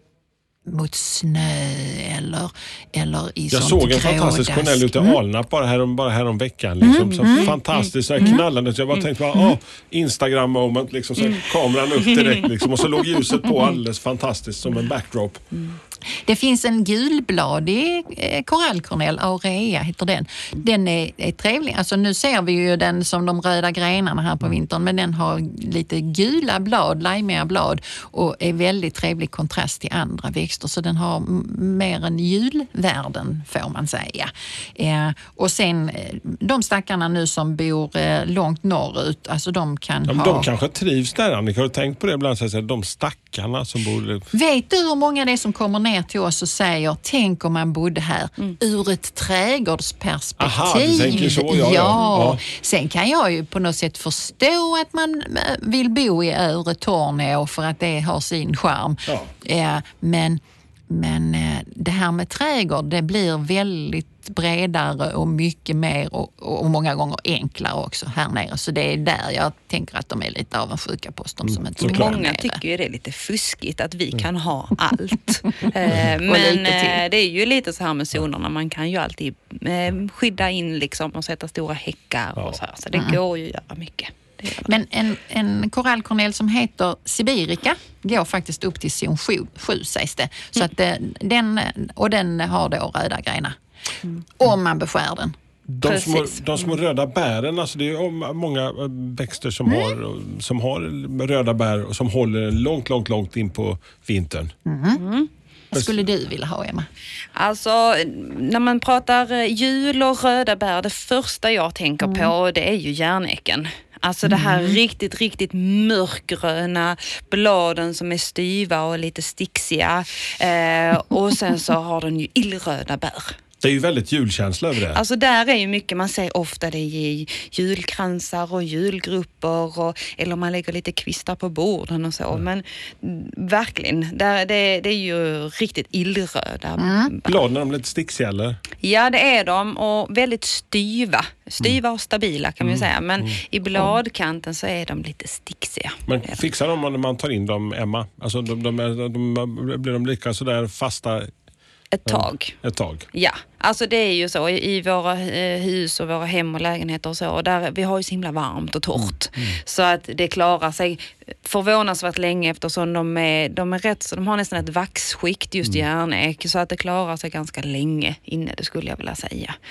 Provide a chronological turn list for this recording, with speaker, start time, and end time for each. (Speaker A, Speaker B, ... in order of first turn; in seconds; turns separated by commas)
Speaker A: 0.7-5.2, Speaker B: 3.5-15.4, Speaker A: 6.8-7.5, Speaker C: 7.3-8.4, Speaker A: 8.2-8.4, Speaker C: 12.0-12.4, Speaker A: 16.1-40.5, Speaker B: 40.1-44.3, Speaker A: 44.3-72.6, Speaker B: 50.4-52.4, Speaker B: 71.5-72.2, Speaker C: 71.8-84.7, Speaker A: 75.9-77.0, Speaker A: 82.9-83.2, Speaker A: 84.6-93.6, Speaker A: 94.4-95.3, Speaker B: 95.7-104.5, Speaker C: 95.9-96.4, Speaker A: 99.7-100.0, Speaker A: 104.7-105.0, Speaker C: 105.0-105.3, Speaker A: 105.7-106.9, Speaker B: 105.7-106.0, Speaker C: 107.3-123.4, Speaker A: 112.0-112.3, Speaker A: 114.2-114.8, Speaker B: 123.6-125.0, Speaker C: 124.9-137.3, Speaker A: 136.8-137.1, Speaker B: 137.3-138.6, Speaker C: 138.8-146.4, Speaker B: 142.6-143.4, Speaker B: 146.1-151.3, Speaker C: 151.9-152.6, Speaker B: 152.1-153.1, Speaker C: 153.1-169.6, Speaker B: 159.0-159.6